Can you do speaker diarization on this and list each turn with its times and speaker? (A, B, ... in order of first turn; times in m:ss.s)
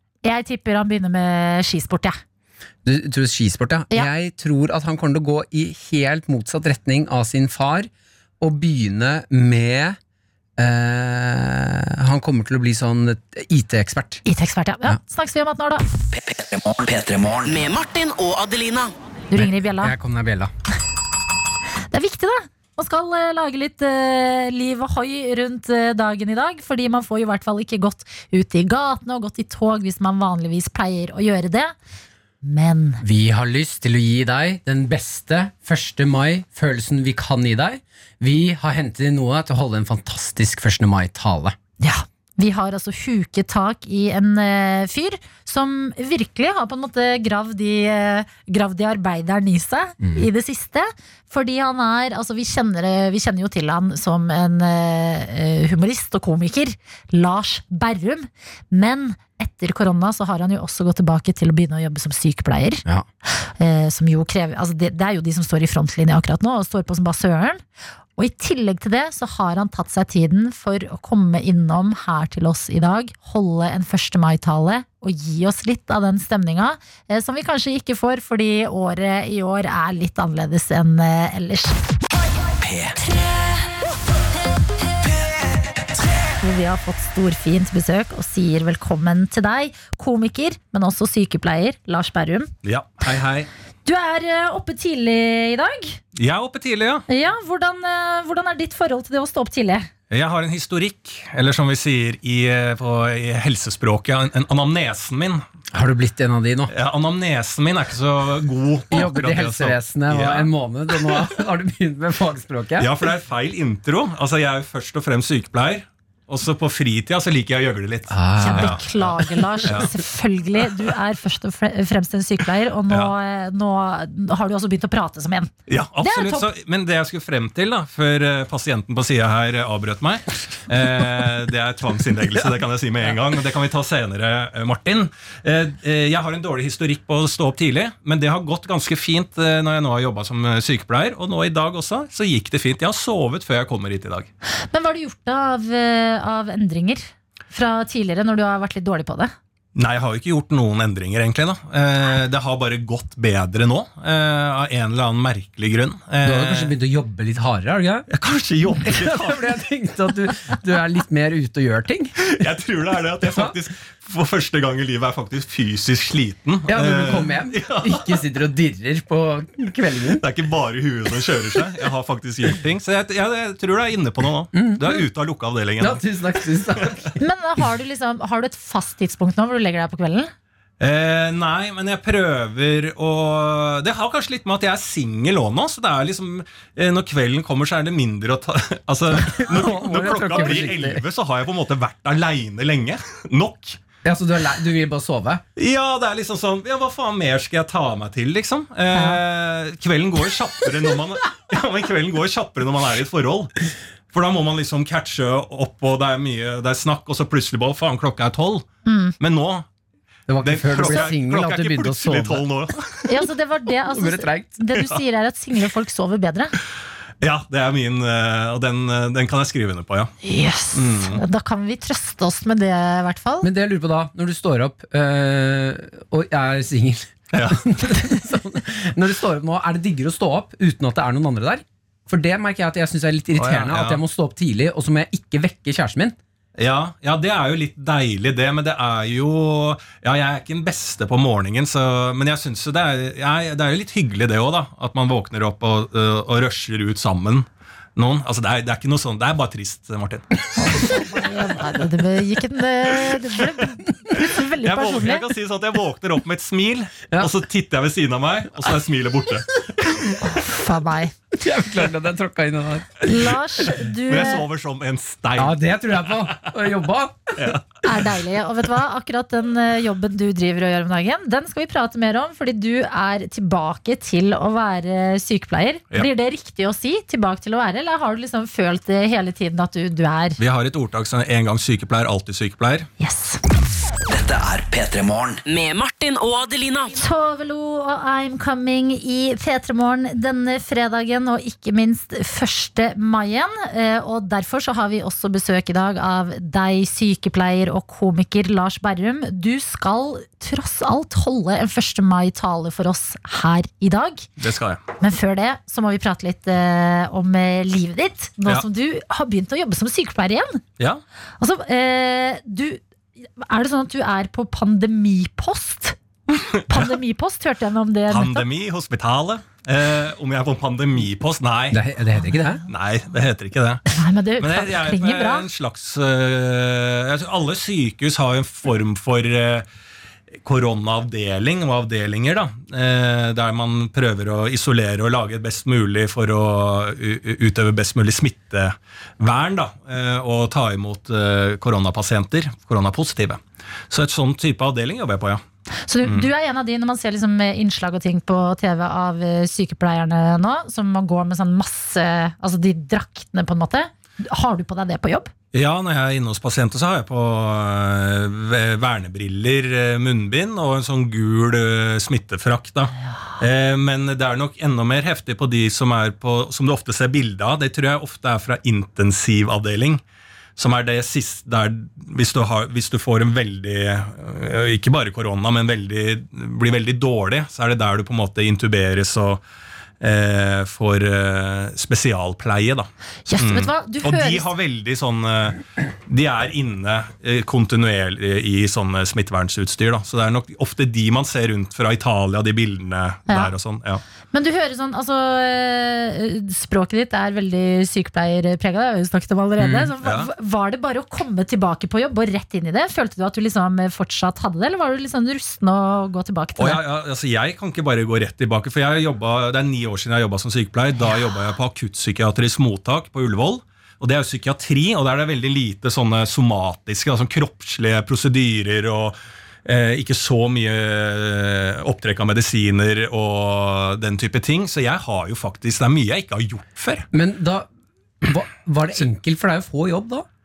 0:00.2-0:02.2 A
0:02.8-0:07.9 B
0:08.4-0:10.0 B
0:10.6-0:14.2 B
0:14.2-0:15.8 A
0:16.2-0:17.6 C
0:17.4-0:18.9 D
0:19.3-0:19.9 A
0:19.4-0:20.5 B
0:21.9-0:31.7 A
0:32.4-0:33.0 A
0:33.0-0:41.6 B
0:41.8-1:02.8 A
0:50.0-0:50.3 B
1:03.6-1:07.6 A
1:08.2-1:21.8 A
1:22.6-1:23.0 C
1:26.4-1:32.5 A
1:32.6-1:33.5 E
1:33.9-1:36.0 A
1:36.1-1:37.1 E
1:37.1-1:39.9 A
1:40.1-1:45.4 E
1:45.7-1:46.7 B
1:46.7-1:51.3 E
1:48.9-1:52.9 B
1:52.8-2:00.0 E
1:58.1-1:58.8 B
1:58.4-2:06.5 A
2:02.9-2:03.1 E
2:05.7-2:24.3 E
2:24.7-2:29.3 A
2:29.8-2:36.7 E
2:36.2-2:38.1 B
2:38.1-2:39.6 E
2:38.8-2:42.1 B
2:42.2-2:48.2 E
2:46.7-2:50.2 B
2:50.2-2:57.0 E
2:54.5-2:55.0 B
2:55.8-2:57.2 B
2:57.2-3:00.3 A
3:00.8-3:13.8 E
3:09.2-3:11.0 B
3:10.3-3:10.7 A
3:14.0-3:15.4 B
3:15.6-3:23.5 E
3:18.9-3:19.2 A
3:24.1-3:28.7 E
3:28.9-3:29.1 A
3:29.2-3:29.6 E
3:30.3-3:32.4 B
3:30.4-3:33.1 E
3:33.1-3:36.5 A
3:33.9-3:34.6 B
3:37.2-3:40.1 E
3:40.2-3:43.5 A
3:40.7-3:41.2 E
3:43.4-3:56.2 B
3:47.3-3:47.9 E
3:53.4-3:54.0 E
3:56.6-4:10.3 E
4:10.6-4:15.3 A
4:14.6-4:20.2 E
4:20.2-4:21.1 A
4:21.3-4:23.3 B
4:23.0-4:24.4 A
4:24.0-4:26.4 E
4:25.4-4:27.3 B
4:27.4-4:27.6 E
4:27.8-4:40.4 A
4:40.4-4:42.9 E
4:43.0-4:43.4 A
4:44.1-4:45.4 C
4:45.4-4:46.9 D
4:47.0-5:04.3 A
5:04.4-5:04.8 E
5:05.0-5:10.6 A
5:11.4-5:12.8 A
5:13.4-5:16.0 A
5:16.5-5:17.0 E
5:16.6-5:18.4 A
5:18.1-5:21.8 E
5:21.7-5:22.6 B
5:22.7-5:29.7 E
5:23.9-5:25.5 A
5:30.4-5:45.4 E
5:45.9-5:55.3 A
5:46.0-5:46.3 E
5:55.5-6:10.0 E
6:10.6-6:19.4 E
6:20.0-6:34.0 E
6:23.3-6:24.5 A
6:34.3-6:46.8 A
6:39.6-6:39.9 B
6:40.0-6:40.3 E
6:46.6-7:07.1 E
7:07.1-7:07.7 B
7:08.2-7:10.3 B